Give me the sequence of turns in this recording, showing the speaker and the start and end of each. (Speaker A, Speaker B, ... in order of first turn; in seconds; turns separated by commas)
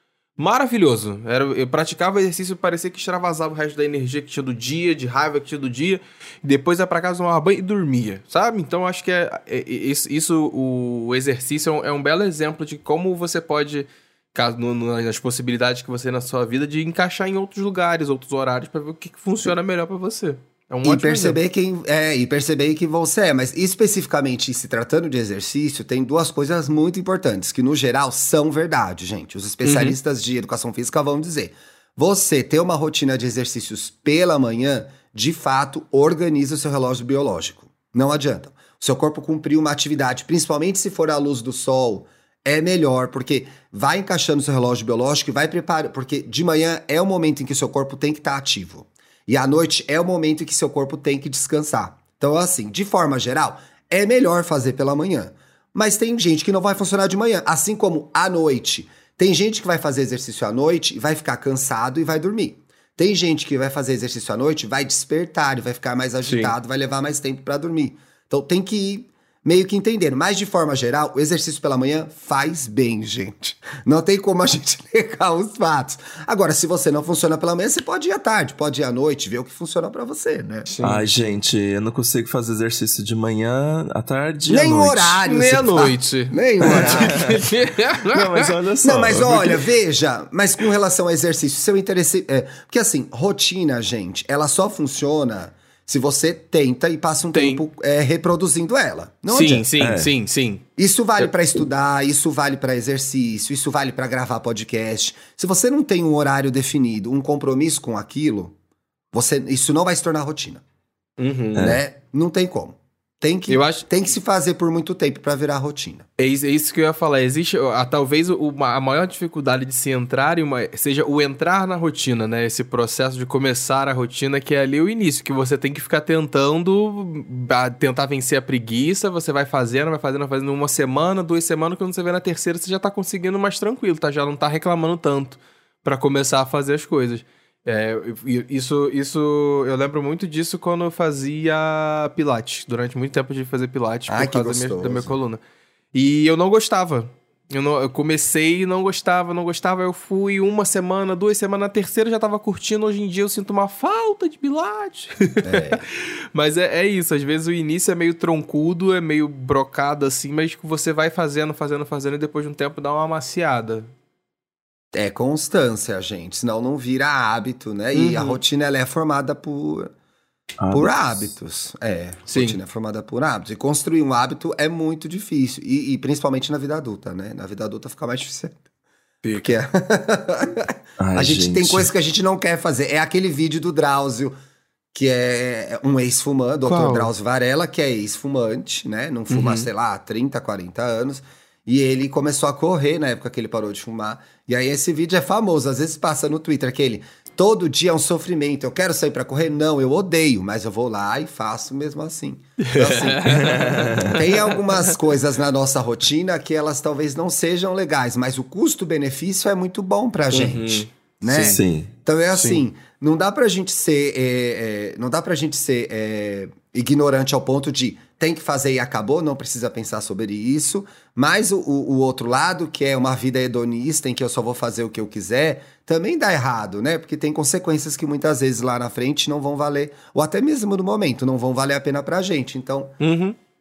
Speaker A: 0.4-21.4, Speaker B: 20.8-80.7, Speaker A: 29.6-30.0, Speaker A: 66.2-66.5, Speaker A: 80.7-81.1, Speaker C: 80.8-85.2, Speaker B: 84.5-87.2, Speaker A: 85.2-88.5, Speaker C: 86.7-87.4, Speaker C: 88.0-89.6, Speaker B: 88.8-99.7, Speaker A: 97.3-97.6, Speaker A: 99.3-100.6, Speaker C: 99.8-100.1, Speaker B: 100.8-108.5, Speaker B: 109.1-110.6, Speaker A: 111.2-111.8, Speaker B: 111.6-116.0, Speaker A: 113.5-113.9, Speaker A: 116.2-145.4, Speaker B: 144.1-145.1, Speaker A: 145.9-155.7, Speaker B: 155.4-155.8, Speaker A: 156.3-163.9, Speaker B: 164.9-169.9, Speaker A: 167.9-168.4, Speaker C: 170.6-171.3, Speaker B: 170.7-178.6, Speaker A: 172.3-172.6, Speaker A: 179.2-179.6, Speaker B: 179.4-184.3, Speaker C: 181.0-181.9, Speaker B: 184.9-233.0, Speaker A: 186.7-187.1, Speaker A: 189.3-189.7, Speaker A: 202.6-204.9, Speaker C: 203.2-204.1, Speaker A: 210.3-211.6, Speaker C: 211.3-211.9, Speaker A: 212.3-212.6, Speaker A: 233.0-233.3